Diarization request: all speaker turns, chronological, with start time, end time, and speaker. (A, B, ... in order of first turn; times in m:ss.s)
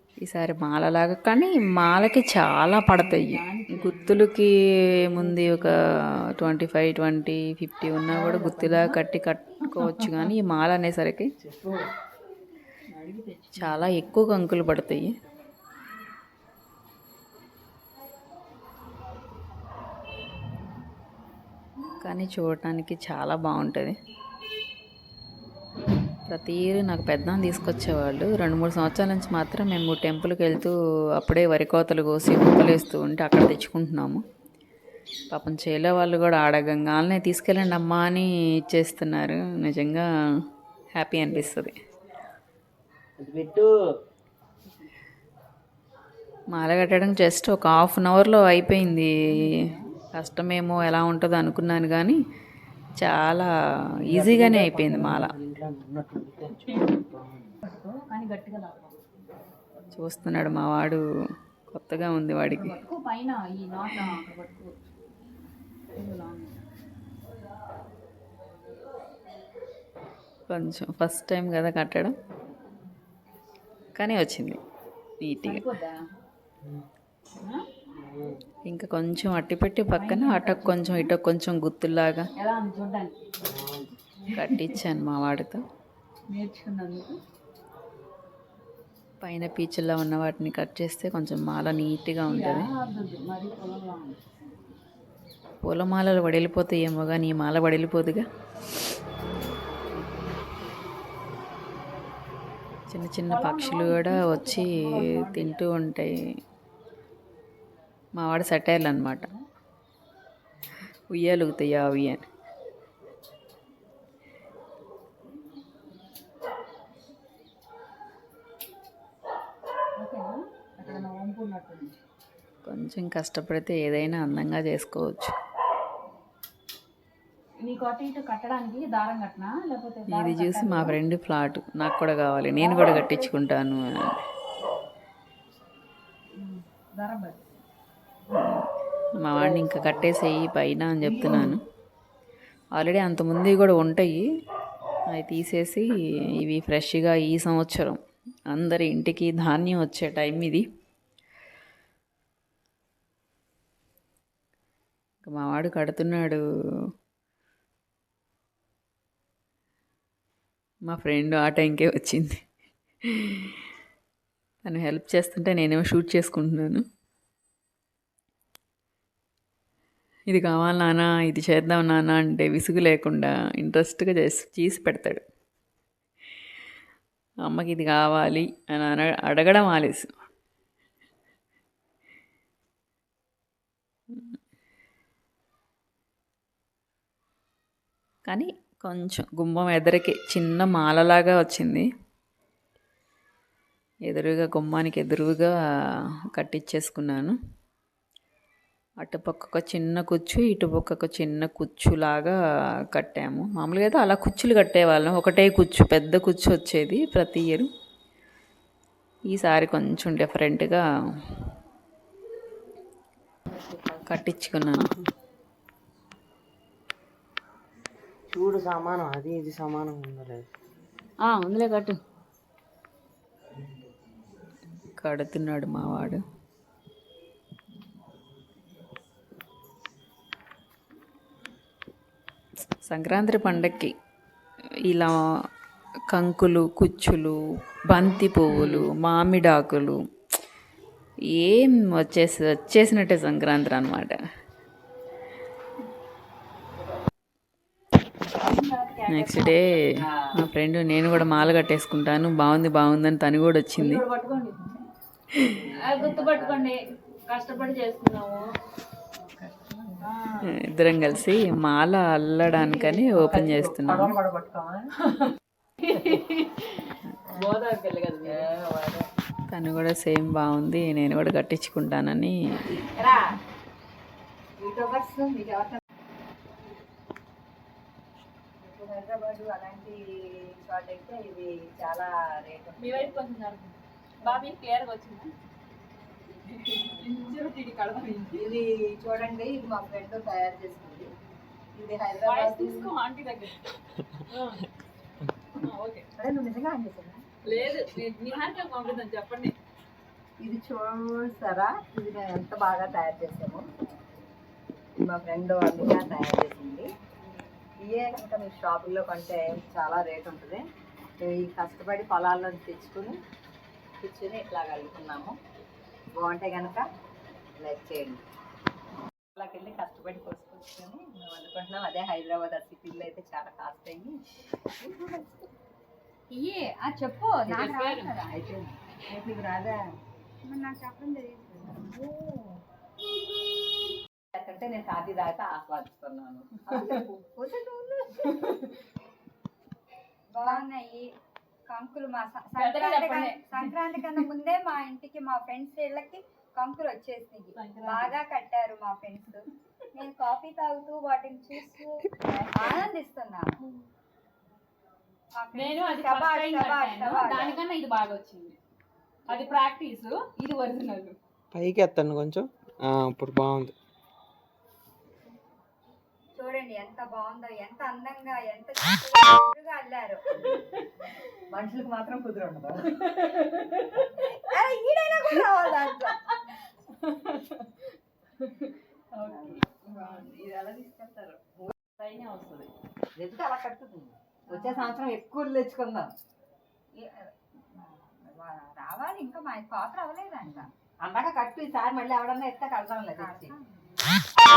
0:00.2-0:11.3 A
0:03.0-0:04.3 B
0:05.0-0:05.9 B
0:08.1-0:09.0 B
0:09.7-0:10.3 B
0:11.4-0:11.9 C
0:12.9-0:14.0 B
0:13.6-0:15.2 A
0:22.0-0:24.0 A
0:26.3-0:34.2 A
0:35.3-0:40.1 A
0:41.0-0:41.7 A
0:43.2-0:43.8 C
0:46.5-0:49.4 A
0:49.3-0:49.9 B
0:50.2-0:52.2 A
0:53.0-0:53.5 A
0:54.1-0:57.5 C
0:54.1-0:55.3 A
0:56.7-0:57.0 B
0:57.6-0:59.0 B
0:59.9-1:01.0 A
1:01.7-1:02.8 A
1:02.5-1:04.7 B
1:06.0-1:06.6 B
1:10.5-1:12.1 A
1:14.0-1:14.6 A
1:15.2-1:15.6 A
1:15.4-1:16.0 B
1:17.9-1:18.4 C
1:18.7-1:22.3 A
1:19.9-1:21.1 B
1:22.4-1:23.3 B
1:23.4-1:24.0 C
1:24.2-1:24.8 B
1:24.3-1:25.6 A
1:26.3-1:27.2 B
1:29.2-1:32.7 A
1:32.2-1:34.2 B
1:35.6-1:38.2 A
1:42.9-1:46.2 A
1:43.3-1:45.6 B
1:48.2-1:49.3 A
1:49.1-1:49.4 B
1:51.1-1:52.2 A
2:00.0-2:02.0 B
2:02.6-2:05.3 A
2:07.6-2:11.0 B
2:10.1-2:14.2 A
2:12.6-2:13.3 B
2:16.4-2:17.5 B
2:18.3-2:21.6 A
2:19.4-2:20.0 C
2:22.7-2:24.2 A
2:25.1-2:30.7 A
2:35.2-2:36.4 A
2:40.8-2:42.4 A
2:43.0-2:43.6 A
2:44.6-2:46.8 A
2:50.3-2:55.2 A
2:57.4-3:00.1 A
3:08.3-3:11.9 A
3:14.1-3:15.5 A
3:16.3-3:17.4 A
3:19.0-3:22.4 A
3:22.9-3:27.7 A
3:29.3-3:30.8 A
3:34.1-3:34.9 A
3:38.3-3:40.5 C
3:41.2-3:42.0 B
3:44.9-3:46.2 A
3:52.8-3:53.9 A
3:54.8-3:55.2 A
3:56.1-4:00.0 A
3:58.5-3:58.9 B
4:01.2-4:04.2 A
4:08.4-4:09.9 B
4:09.1-4:14.0 A
4:13.8-4:14.8 B
4:15.4-4:15.6 A
4:15.7-4:18.5 B
4:15.9-4:16.7 D
4:19.3-4:20.1 D
4:20.0-4:20.5 B
4:20.5-4:24.2 A
4:22.6-4:24.9 D
4:25.8-4:28.5 B
4:28.2-4:29.1 D
4:29.5-4:32.4 A
4:32.8-4:33.4 D
4:34.6-4:35.8 D
4:38.6-4:43.2 D
4:42.8-4:45.3 B
4:46.4-4:48.5 B
4:48.3-4:51.1 D
4:51.7-4:52.9 D
4:52.2-4:53.6 B
4:54.3-4:54.7 B
4:55.6-4:56.1 B
4:56.2-4:57.3 D
4:57.4-4:59.6 B
5:00.4-5:03.7 D
5:05.0-5:06.9 D
5:07.8-5:10.6 D
5:11.2-5:13.2 D
5:14.0-5:15.4 D
5:16.2-5:16.8 D
5:17.5-5:18.2 D
5:19.4-5:24.3 D
5:24.8-5:25.4 D
5:26.3-5:28.3 E
5:27.5-5:28.2 B
5:28.2-5:29.8 D
5:30.4-5:32.1 E
5:34.3-5:37.3 D
5:37.4-5:38.4 E
5:40.3-5:41.1 E
5:41.7-5:53.6 E
5:42.6-5:43.7 B
5:47.6-5:48.2 B
5:52.2-5:52.8 B
5:55.4-5:57.6 E
5:55.5-5:58.6 B
5:59.3-6:01.2 B
6:01.5-6:03.7 C
6:06.4-6:10.3 E
6:11.5-6:13.0 D
6:13.0-6:14.2 B
6:14.2-6:16.2 E
6:15.7-6:17.7 B
6:18.4-6:22.7 B
6:19.3-6:19.6 D
6:23.2-6:26.1 D
6:24.5-6:24.9 E
6:27.0-6:27.3 E
6:28.7-6:30.7 E
6:31.0-6:33.5 D
6:33.2-6:33.9 E